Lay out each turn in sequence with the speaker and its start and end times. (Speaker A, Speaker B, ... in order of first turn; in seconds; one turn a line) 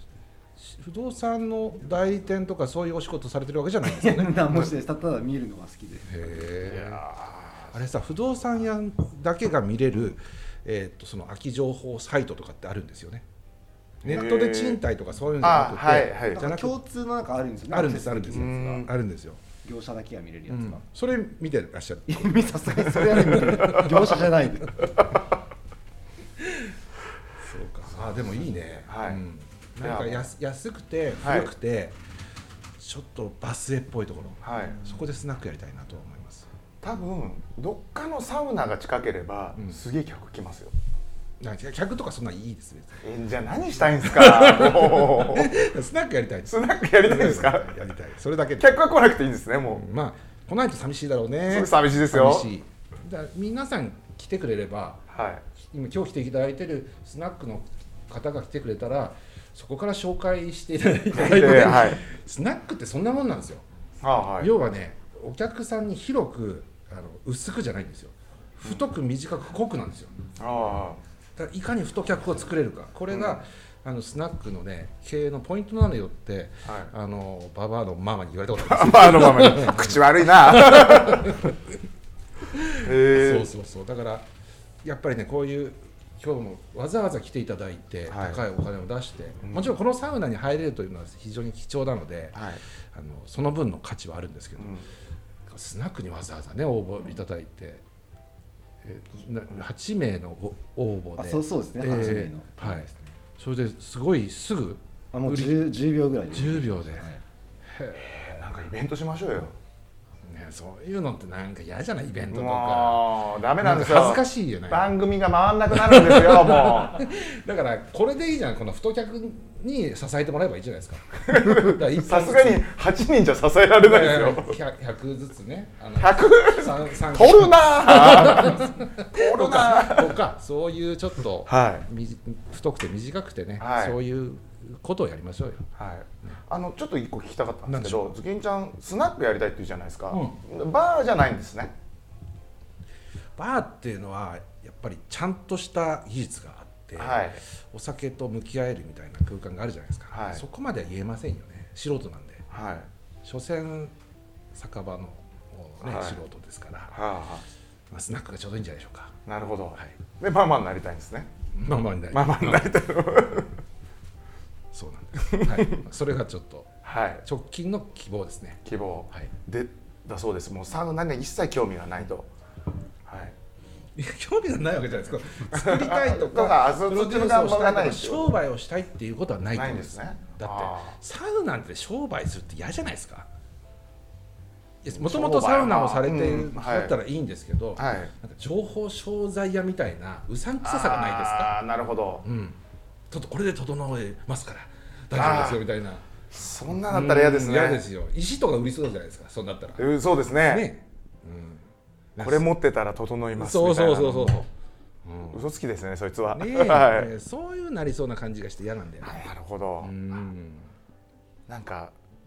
Speaker A: 0.6-4.7
Speaker B: 3.9-6.5
Speaker A: 6.1-7.0
Speaker C: 6.6-7.8
Speaker A: 7.7-13.2
Speaker A: 14.0-16.8
Speaker C: 14.0-14.8
Speaker C: 15.4-16.5
Speaker B: 16.2-18.8
Speaker A: 17.7-19.4
Speaker C: 18.3-18.9
Speaker B: 19.6-20.8
Speaker A: 20.5-24.1
Speaker B: 22.1-25.0
Speaker A: 27.4-32.0
Speaker C: 28.9-29.2
Speaker C: 29.8-30.3
Speaker C: 31.2-31.5
Speaker A: 32.8-36.5
Speaker C: 34.4-34.8
Speaker C: 36.8-40.7
Speaker A: 41.4-43.0
Speaker C: 43.0-45.6
Speaker A: 44.0-48.8
Speaker C: 46.5-47.8
Speaker C: 48.6-49.8
Speaker A: 49.7-55.0
Speaker C: 51.5-52.5
Speaker C: 55.1-55.4
Speaker A: 55.6-63.6
Speaker C: 61.1-62.0
Speaker C: 64.0-64.5
Speaker A: 64.4-70.2
Speaker C: 70.4-71.0
Speaker A: 71.4-81.6
Speaker C: 73.1-73.4
Speaker C: 76.7-76.9
Speaker C: 78.6-81.4
Speaker A: 82.5-84.3
Speaker C: 82.8-83.5
Speaker A: 84.8-92.4
Speaker C: 88.1-88.4
Speaker C: 89.4-89.7
Speaker C: 92.3-92.6
Speaker A: 92.9-94.8
Speaker C: 94.6-94.8
Speaker A: 95.5-97.8
Speaker A: 98.8-105.7
Speaker B: 101.2-103.1
Speaker B: 105.1-107.2
Speaker A: 106.3-107.1
Speaker A: 107.7-108.3
Speaker C: 108.0-109.5
Speaker A: 110.2-114.9
Speaker C: 112.3-117.0
Speaker A: 115.7-122.7
Speaker C: 121.3-124.6
Speaker A: 123.8-135.7
Speaker C: 126.0-130.2
Speaker C: 131.5-131.9
Speaker C: 133.6-134.0
Speaker C: 135.8-141.7
Speaker A: 137.7-138.2
Speaker A: 140.1-140.4
Speaker A: 143.4-152.5
Speaker C: 147.0-147.4
Speaker C: 150.1-150.4
Speaker C: 152.5-152.9
Speaker A: 153.2-153.9
Speaker A: 154.5-157.0
Speaker C: 155.8-156.2
Speaker C: 156.9-157.4
Speaker A: 157.9-159.2
Speaker C: 159.3-161.3
Speaker A: 161.5-162.8
Speaker C: 162.1-163.5
Speaker A: 164.7-169.3
Speaker C: 165.3-165.7
Speaker C: 166.8-167.2
Speaker C: 168.7-172.3
Speaker C: 173.1-173.3
Speaker A: 174.0-183.3
Speaker C: 175.5-178.4
Speaker C: 179.5-181.0
Speaker A: 184.8-191.6
Speaker C: 184.9-187.0
Speaker C: 187.8-188.1
Speaker C: 190.6-192.2
Speaker A: 192.2-192.6
Speaker A: 193.1-196.1
Speaker C: 195.1-195.7
Speaker C: 196.3-197.8
Speaker A: 196.7-202.5
Speaker C: 199.8-200.7
Speaker C: 202.2-204.5
Speaker A: 203.4-204.5
Speaker A: 205.1-205.4
Speaker C: 205.3-207.1
Speaker A: 206.3-209.3
Speaker C: 209.0-209.9
Speaker A: 209.8-210.7
Speaker C: 211.5-211.9